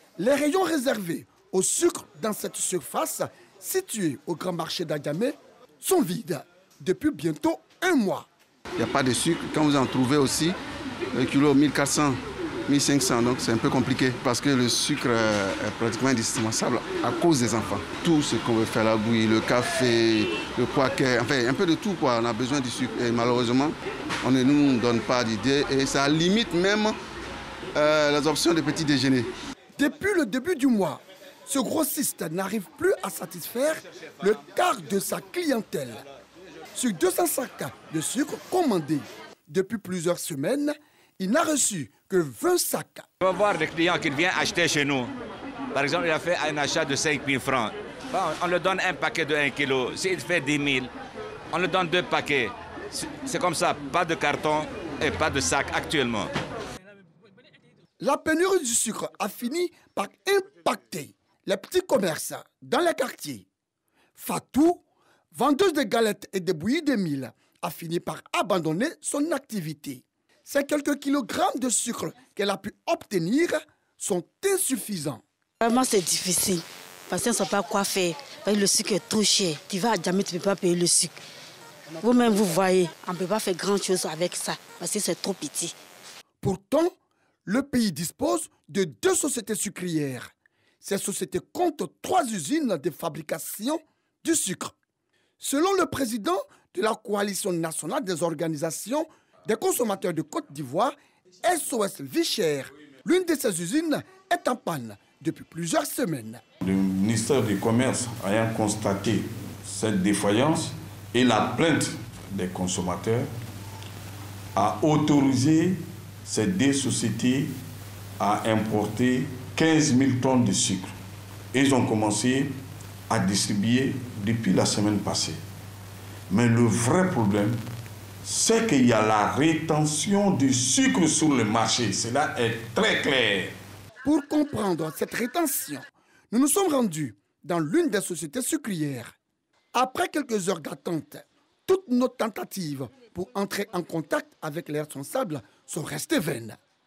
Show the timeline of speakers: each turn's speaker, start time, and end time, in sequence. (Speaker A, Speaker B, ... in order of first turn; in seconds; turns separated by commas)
Speaker A: 0.2-8.3, Speaker B: 8.8-10.6, Speaker B: 11.1-27.0, Speaker B: 27.7-29.3, Speaker A: 29.8-36.0, Speaker A: 36.7-43.0, Speaker C: 43.2-45.1, Speaker C: 45.7-50.9, Speaker C: 51.5-56.3, Speaker A: 58.0-63.5, Speaker A: 64.2-75.2, Speaker D: 75.6-81.2, Speaker D: 82.0-85.7, Speaker A: 86.4-86.9, Speaker A: 87.5-90.3, Speaker A: 90.8-94.7, Speaker A: 95.4-106.4, Speaker E: 106.6-113.3, Speaker E: 114.5-117.5, Speaker E: 118.2-120.9, Speaker E: 121.5-122.5, Speaker E: 123.1-125.4, Speaker E: 126.3-127.6, Speaker E: 128.2-133.5, Speaker A: 134.0-139.1, Speaker A: 139.7-146.6